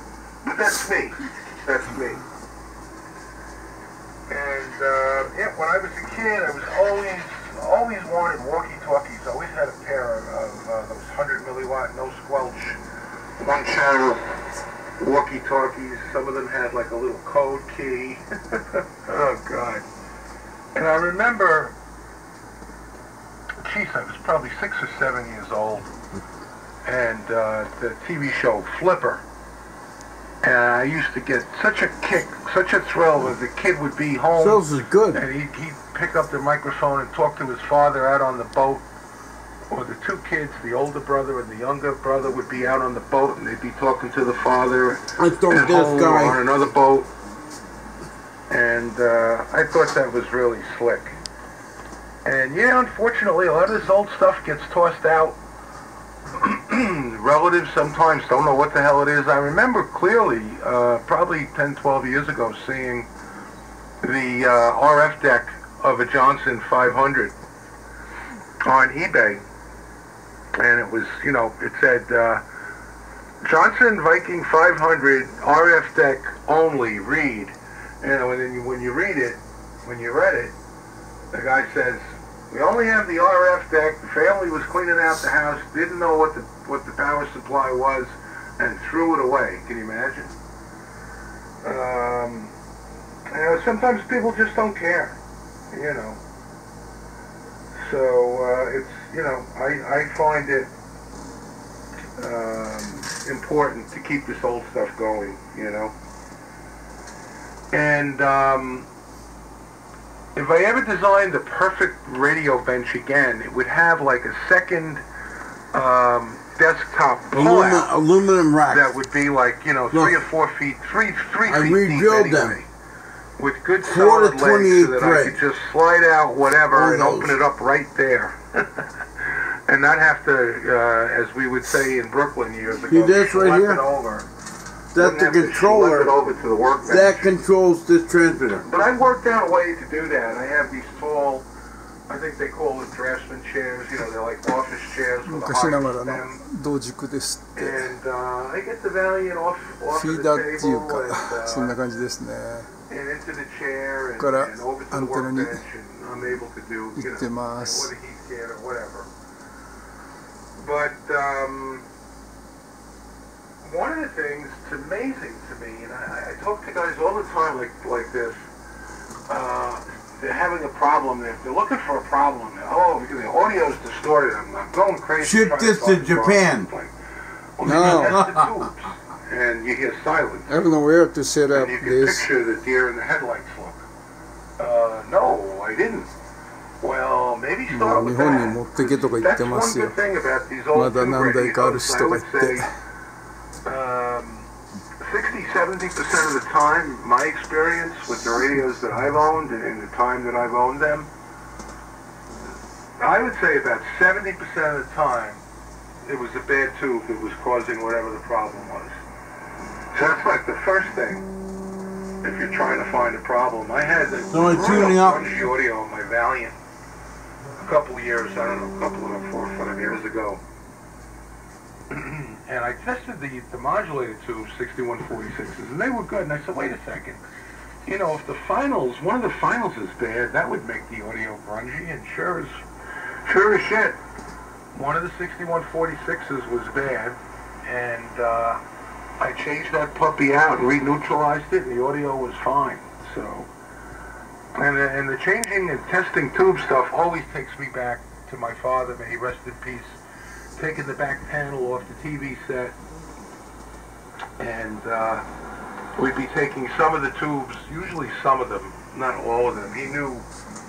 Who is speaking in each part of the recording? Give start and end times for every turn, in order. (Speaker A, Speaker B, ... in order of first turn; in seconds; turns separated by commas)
Speaker A: 0.4-2.2, Speaker A: 4.3-12.8, Speaker A: 13.4-14.3, Speaker A: 15.0-19.9, Speaker A: 20.8-21.7, Speaker A: 23.6-25.9, Speaker A: 26.9-29.2, Speaker A: 30.4-38.8, Speaker B: 34.4-35.2, Speaker A: 39.7-47.1, Speaker B: 45.2-46.4, Speaker A: 48.5-51.2, Speaker A: 52.2-55.4, Speaker A: 56.4-63.1, Speaker A: 64.0-67.3, Speaker A: 68.7-69.4, Speaker A: 70.6-72.4, Speaker A: 73.4-80.5, Speaker A: 81.3-90.3, Speaker A: 91.6-92.5, Speaker A: 93.3-95.2, Speaker A: 95.7-96.2, Speaker A: 97.8-100.7, Speaker A: 102.2-105.9, Speaker A: 107.7-108.9, Speaker A: 110.3-115.0, Speaker A: 115.7-118.0, Speaker B: 117.3-118.9, Speaker A: 118.7-122.7, Speaker B: 121.5-122.6, Speaker A: 123.4-134.3, Speaker B: 123.8-125.4, Speaker B: 126.7-127.4, Speaker B: 132.9-133.8, Speaker B: 134.9-136.1, Speaker A: 134.9-137.3, Speaker B: 136.9-138.7, Speaker A: 138.7-141.4, Speaker A: 142.1-146.4, Speaker C: 145.2-147.9, Speaker A: 147.6-151.8, Speaker C: 149.9-152.7, Speaker A: 152.9-159.1, Speaker C: 154.2-155.6, Speaker C: 157.0-157.9, Speaker A: 160.6-161.9, Speaker A: 163.6-168.4, Speaker A: 169.3-176.9, Speaker B: 175.2-176.7, Speaker A: 177.6-180.6, Speaker C: 177.7-178.2, Speaker B: 177.7-178.5, Speaker C: 180.5-182.3, Speaker A: 181.5-183.8, Speaker A: 184.6-186.1, Speaker A: 186.8-192.7, Speaker C: 187.7-190.0, Speaker C: 190.7-192.7, Speaker A: 193.7-194.5, Speaker A: 195.1-201.1, Speaker A: 203.0-205.4, Speaker A: 206.1-208.9, Speaker A: 209.9-211.3, Speaker A: 212.2-216.6, Speaker B: 214.3-215.3, Speaker A: 217.6-220.4, Speaker A: 221.9-227.2, Speaker A: 227.9-232.6, Speaker A: 233.2-234.0, Speaker A: 234.7-238.6, Speaker A: 239.2-243.5, Speaker A: 244.6-250.0, Speaker A: 250.6-252.8, Speaker A: 254.4-255.2, Speaker A: 256.0-260.3